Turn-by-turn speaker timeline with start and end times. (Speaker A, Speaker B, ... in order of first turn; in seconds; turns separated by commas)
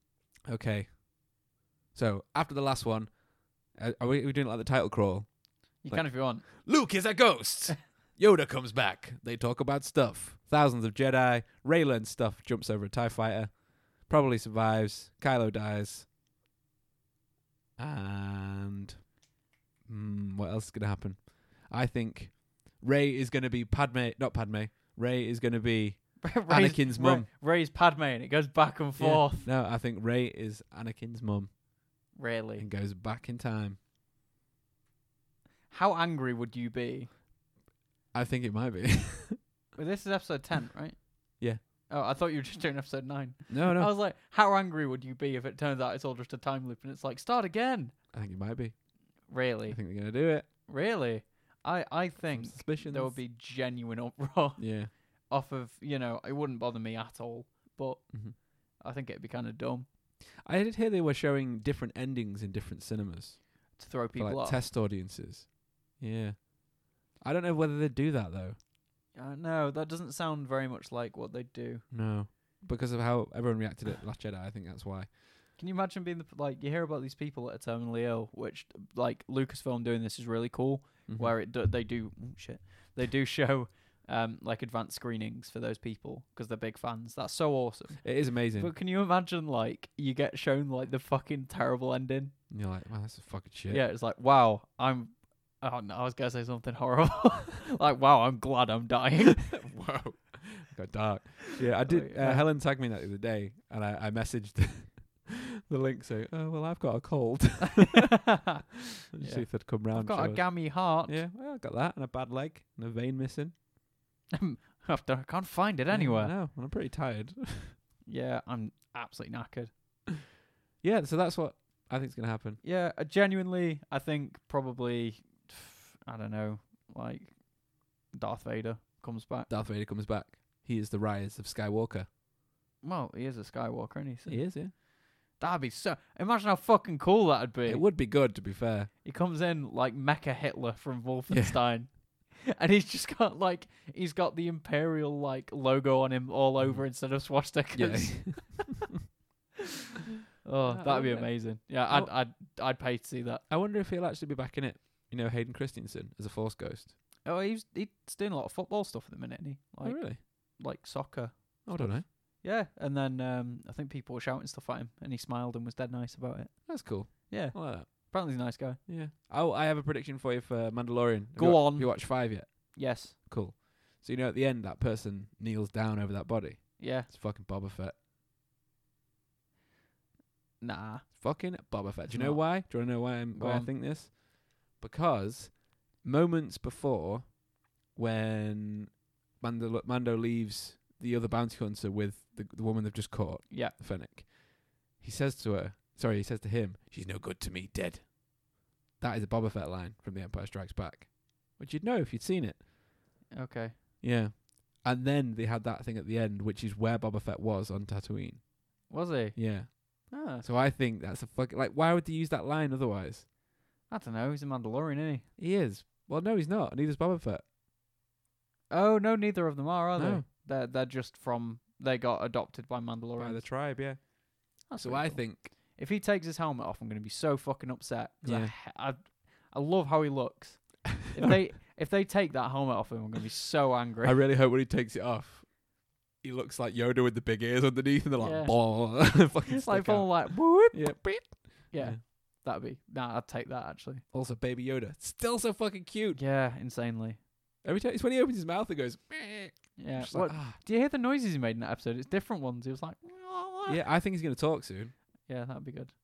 Speaker A: 0.5-16.1, Speaker B: 5.8-6.5, Speaker A: 17.8-19.1, Speaker A: 19.8-27.3, Speaker B: 26.2-29.5, Speaker A: 29.0-33.8, Speaker B: 32.1-32.7, Speaker B: 35.7-37.1, Speaker A: 38.1-39.4, Speaker B: 39.7-48.0, Speaker A: 43.5-44.0, Speaker A: 48.1-50.5, Speaker B: 49.2-59.9, Speaker A: 52.2-53.2, Speaker A: 54.6-54.9, Speaker A: 58.1-58.4, Speaker A: 60.4-68.6, Speaker B: 63.8-64.7, Speaker B: 69.1-71.8, Speaker A: 71.9-75.2, Speaker B: 75.5-92.4, Speaker A: 81.1-81.4, Speaker A: 88.0-88.7, Speaker A: 92.5-93.8, Speaker B: 93.7-99.6, Speaker A: 99.5-108.5, Speaker B: 101.8-102.5, Speaker B: 107.6-108.6, Speaker A: 109.1-113.5, Speaker B: 109.2-111.2, Speaker B: 114.4-116.3, Speaker A: 115.9-117.8, Speaker B: 118.1-119.7, Speaker A: 120.8-122.6, Speaker B: 122.6-129.5, Speaker A: 129.5-132.1, Speaker B: 132.8-137.9, Speaker A: 134.2-134.7, Speaker A: 137.7-138.9, Speaker B: 139.0-148.7, Speaker A: 141.3-141.6, Speaker A: 146.6-148.8, Speaker B: 150.4-153.4, Speaker A: 150.6-152.2, Speaker A: 153.5-156.9, Speaker B: 157.2-168.8, Speaker A: 159.8-160.2, Speaker A: 161.6-162.1, Speaker A: 166.7-177.9, Speaker B: 171.3-173.2, Speaker B: 176.8-177.1, Speaker B: 180.6-181.4, Speaker A: 181.2-202.6, Speaker B: 182.1-183.7, Speaker B: 193.5-193.7, Speaker B: 203.3-203.8, Speaker A: 204.0-213.2, Speaker B: 208.9-210.4, Speaker B: 213.9-215.3, Speaker A: 215.4-217.4, Speaker B: 218.7-223.6, Speaker A: 219.9-220.2, Speaker A: 223.2-225.5, Speaker B: 224.7-234.2, Speaker A: 228.2-228.5, Speaker A: 234.0-242.0, Speaker B: 238.2-244.0, Speaker A: 244.1-246.2, Speaker B: 246.1-247.2, Speaker A: 247.6-250.6, Speaker B: 249.8-253.8, Speaker A: 253.7-255.0, Speaker B: 255.2-255.9